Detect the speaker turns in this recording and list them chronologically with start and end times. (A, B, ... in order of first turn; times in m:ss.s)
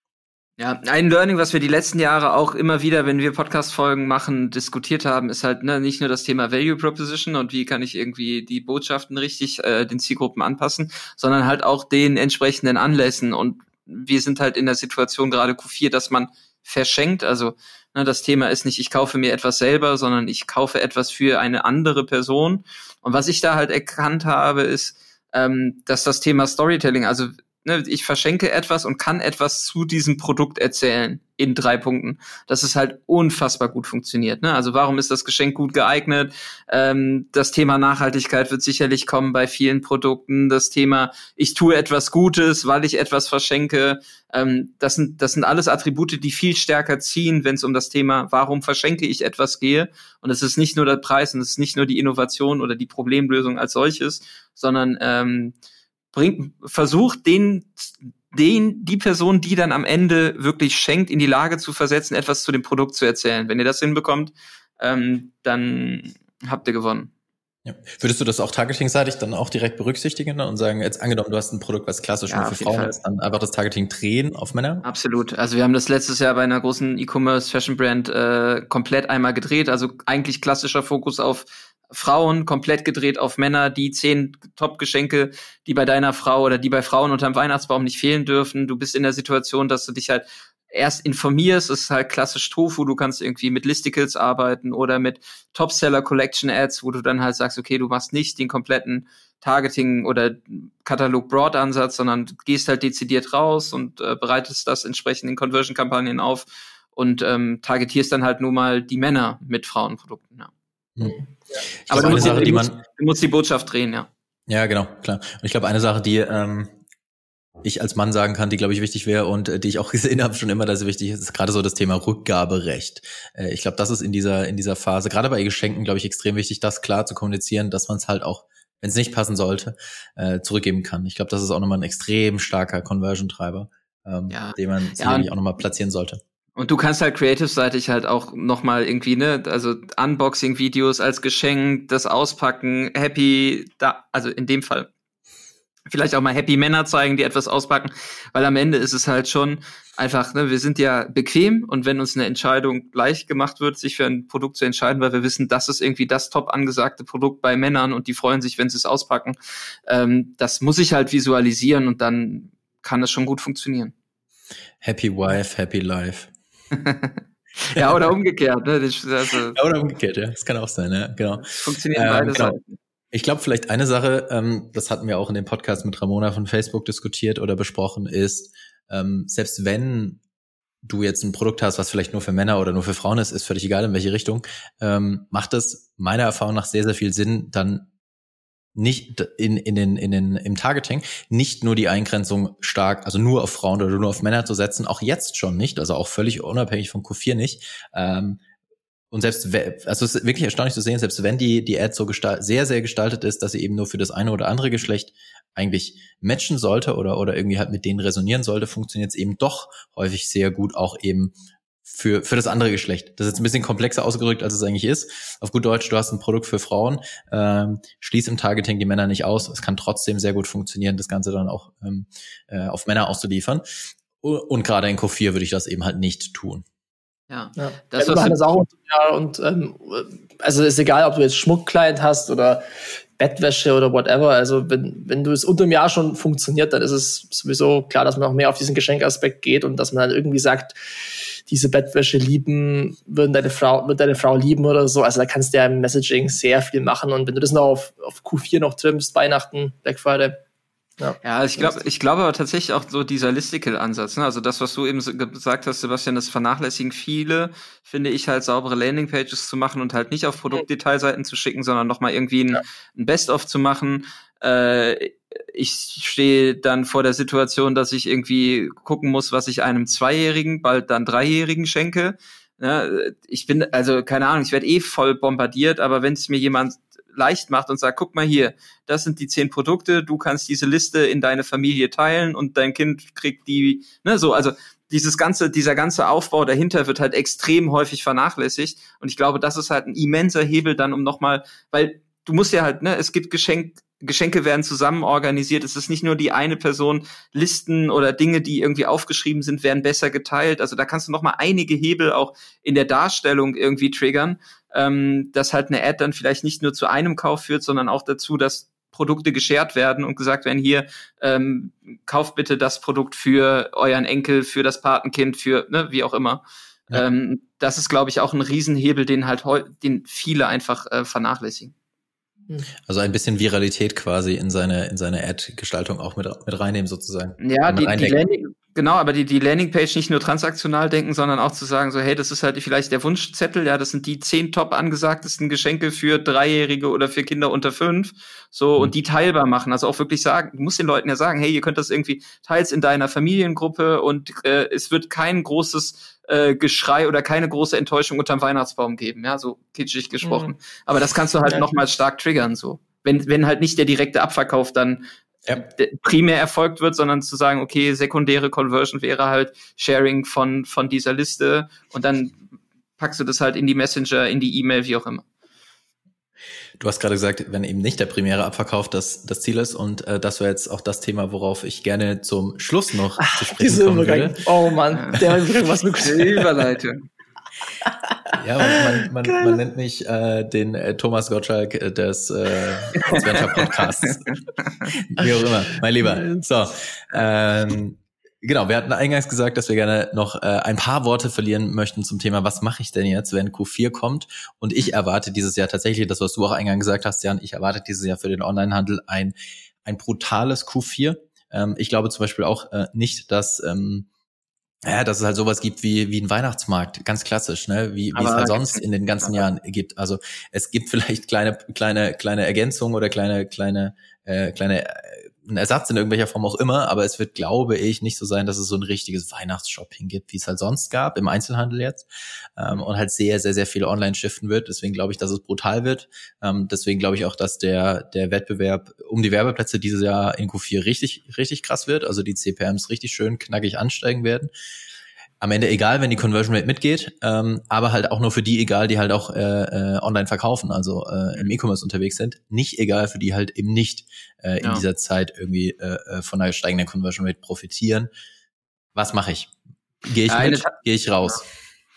0:00.6-0:55.5 A
0:56.1-1:07.1 A
1:07.6-1:14.8 B
1:12.3-1:13.0 A
1:14.8-1:50.5 A
1:51.0-1:52.4 C
1:51.8-1:52.8 B
1:51.9-1:54.1 A
1:54.5-1:56.8 B
1:57.6-2:16.2 B
2:14.3-2:15.3 A
2:16.6-2:24.9 A
2:25.9-2:43.9 A
2:44.8-2:46.3 B
2:46.7-2:49.6 A
2:49.5-2:52.6 B
2:51.4-2:52.8 A
2:53.1-3:00.2 B
3:00.8-3:07.9 B
3:08.8-3:18.4 B
3:19.1-3:46.6 B
3:47.3-3:48.4 A
3:47.6-4:10.4 C
4:11.0-4:11.8 C
4:11.2-5:21.7 A
5:22.9-5:28.2 B
5:27.4-6:02.4 A
5:50.2-5:50.5 C
6:03.0-6:05.2 A
6:06.8-6:14.4 B
6:13.2-6:16.5 C
6:14.9-6:15.2 A
6:16.0-6:17.0 A
6:18.3-6:24.3 B
6:23.0-6:24.1 A
6:25.0-6:44.1 B
6:44.8-7:14.5 B
6:48.1-6:49.4 A
7:15.4-7:28.1 B
7:28.9-7:29.5 B
7:30.0-7:31.4 B
7:30.3-7:30.7 A